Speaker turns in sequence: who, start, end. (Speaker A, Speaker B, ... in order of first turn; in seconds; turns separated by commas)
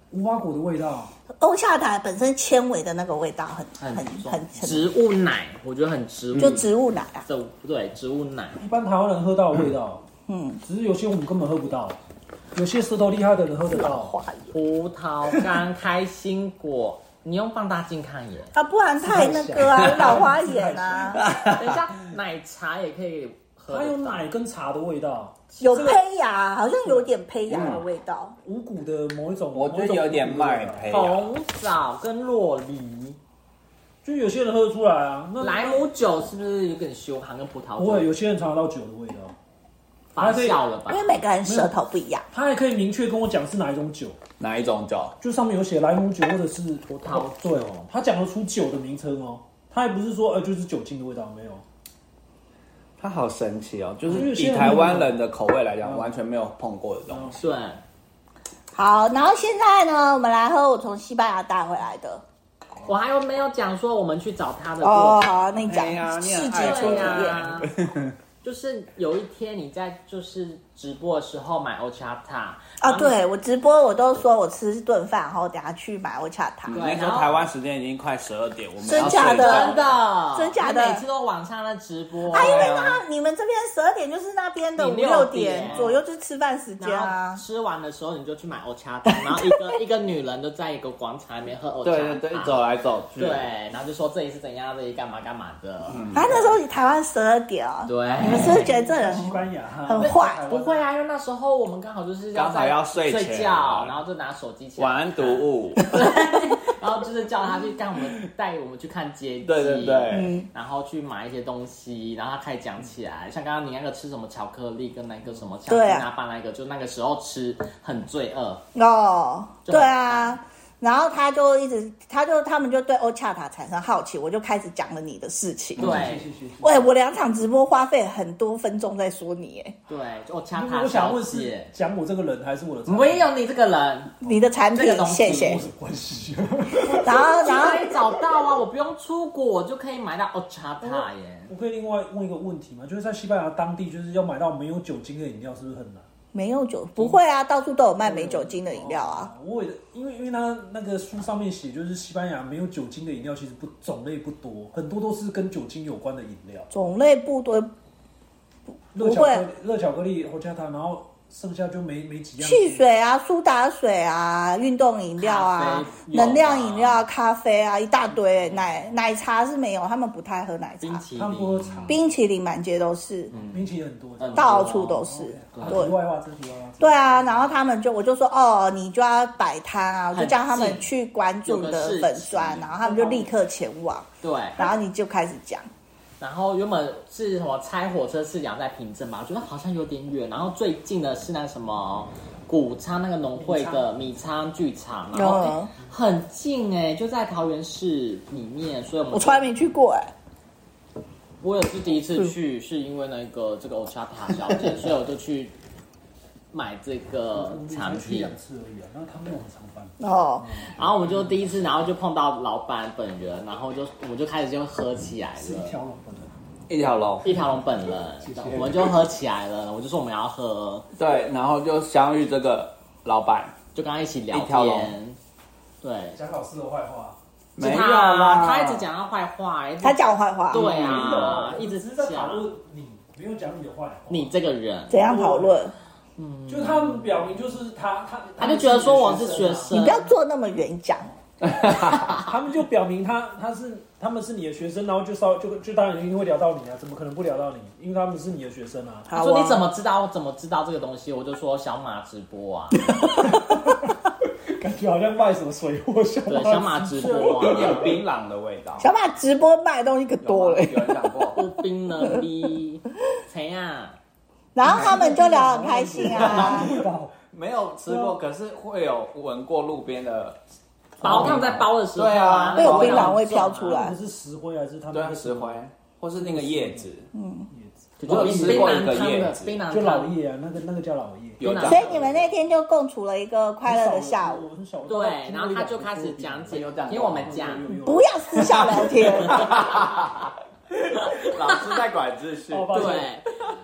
Speaker A: 0.1-1.1, Speaker B: 1.3-4.9, Speaker C: 3.8-6.6, Speaker D: 6.3-6.6, Speaker B: 6.3-7.2, Speaker C: 7.2-8.6, Speaker A: 8.6-10.0, Speaker B: 10.3-10.6, Speaker A: 10.6-12.0, Speaker A: 12.5-14.1, Speaker B: 13.7-14.5, Speaker C: 14.5-18.5, Speaker B: 18.5-21.2, Speaker A: 19.0-21.2, Speaker D: 19.8-20.1, Speaker D: 21.2-21.9, Speaker C: 21.5-24.3, Speaker A: 23.7-26.0, Speaker C: 25.5-25.9, Speaker B: 25.6-28.4, Speaker A: 26.8-27.1, Speaker D: 27.5-27.8, Speaker A: 28.4-31.0, Speaker D: 29.5-31.3, Speaker C: 30.9-33.2, Speaker A: 34.0-35.9, Speaker C: 35.4-38.1, Speaker A: 37.8-39.3, Speaker C: 40.1-41.1, Speaker A: 40.2-40.6, Speaker B: 40.9-42.3, Speaker A: 41.4-41.7, Speaker A: 42.3-44.2, Speaker D: 44.4-45.2, Speaker A: 45.2-51.6, Speaker C: 46.9-47.8, Speaker D: 53.0-57.4, Speaker A: 54.0-55.2, Speaker A: 55.8-56.1, Speaker A: 57.1-57.4, Speaker C: 57.4-57.8, Speaker B: 58.7-62.2, Speaker C: 62.9-65.3, Speaker B: 64.8-67.5, Speaker D: 65.6-68.1, Speaker C: 66.5-67.7, Speaker C: 68.4-73.2, Speaker B: 72.8-76.8, Speaker D: 76.7-79.9, Speaker C: 76.7-77.4, Speaker B: 78.8-79.8, Speaker C: 79.0-83.0, Speaker B: 80.3-81.0, Speaker B: 82.3-87.4, Speaker C: 84.8-86.0, Speaker C: 86.8-92.6, Speaker B: 89.1-89.4, Speaker D: 91.8-93.4, Speaker C: 93.1-96.1, Speaker D: 95.9-96.5, Speaker B: 96.1-100.4, Speaker C: 97.8-98.7, Speaker A: 98.2-100.8, Speaker C: 100.0-118.6, Speaker D: 102.3-104.0, Speaker D: 104.8-106.1, Speaker D: 109.4-110.3, Speaker B: 110.1-110.5, Speaker B: 115.7-116.0, Speaker B: 118.7-126.0, Speaker C: 119.6-120.4, Speaker C: 125.8-126.2, Speaker A: 125.8-126.9, Speaker B: 126.6-129.8, Speaker C: 129.9-131.7, Speaker A: 130.5-133.3, Speaker C: 132.9-134.1, Speaker B: 134.2-135.6, Speaker C: 134.7-135.6, Speaker A: 135.2-137.7, Speaker B: 136.9-138.0, Speaker C: 137.0-141.5, Speaker A: 140.8-146.1, Speaker B: 146.3-149.3, Speaker A: 148.0-156.7, Speaker B: 156.7-157.7, Speaker A: 158.9-162.8, Speaker B: 158.9-159.5, Speaker B: 162.4-171.0, Speaker C: 165.2-167.1, Speaker C: 170.8-172.0, Speaker A: 171.1-172.0, Speaker B: 171.9-173.3, Speaker C: 173.3-175.9, Speaker A: 173.5-177.5, Speaker B: 174.3-175.9, Speaker B: 176.8-185.7, Speaker C: 180.1-180.9, Speaker C: 181.4-183.3, Speaker C: 184.2-184.7, Speaker C: 186.2-199.5, Speaker A: 193.4-193.9, Speaker B: 195.1-195.7, Speaker B: 199.1-200.1, Speaker C: 201.4-205.5, Speaker C: 206.5-208.3, Speaker A: 207.3-210.8, Speaker B: 210.0-210.6, Speaker C: 210.7-215.8, Speaker A: 215.4-216.3, Speaker D: 216.7-217.3, Speaker C: 217.2-220.9, Speaker A: 218.2-218.9, Speaker D: 218.5-218.8, Speaker D: 220.9-223.5, Speaker C: 223.7-225.2, Speaker D: 224.3-224.9, Speaker C: 225.8-226.2, Speaker A: 226.1-227.2, Speaker D: 227.6-228.9, Speaker C: 227.6-232.4, Speaker B: 229.8-231.3, Speaker A: 230.5-234.3, Speaker C: 234.1-235.0, Speaker B: 234.9-235.8, Speaker A: 235.0-235.5, Speaker C: 236.2-237.2, Speaker A: 236.5-239.7, Speaker C: 238.4-240.1, Speaker B: 239.7-241.1, Speaker D: 241.4-242.2, Speaker A: 242.0-249.1, Speaker B: 249.1-249.7, Speaker C: 249.1-252.9, Speaker A: 253.0-253.9, Speaker B: 253.2-253.6, Speaker A: 254.4-258.0, Speaker C: 256.3-258.0, Speaker D: 257.2-258.9, Speaker B: 258.8-261.2, Speaker D: 260.2-261.4, Speaker C: 261.3-264.0, Speaker B: 264.5-266.8, Speaker A: 264.6-267.1, Speaker D: 266.0-270.4, Speaker A: 267.9-268.2, Speaker D: 271.0-273.2, Speaker C: 271.0-273.8, Speaker A: 271.1-271.5, Speaker B: 272.5-274.0, Speaker A: 272.8-273.1, Speaker A: 273.6-275.6, Speaker D: 274.9-277.1, Speaker A: 276.1-276.9, Speaker B: 277.1-277.5, Speaker A: 277.5-279.1, Speaker C: 278.0-280.1, Speaker D: 278.0-279.6, Speaker A: 279.7-281.4, Speaker D: 281.4-282.3, Speaker C: 281.4-281.9, Speaker B: 281.6-284.5, Speaker A: 283.6-288.8, Speaker C: 284.9-287.7, Speaker D: 286.5-287.6, Speaker B: 287.8-289.5, Speaker D: 288.3-293.1, Speaker C: 290.9-291.8, Speaker A: 292.5-293.1, Speaker C: 292.7-293.3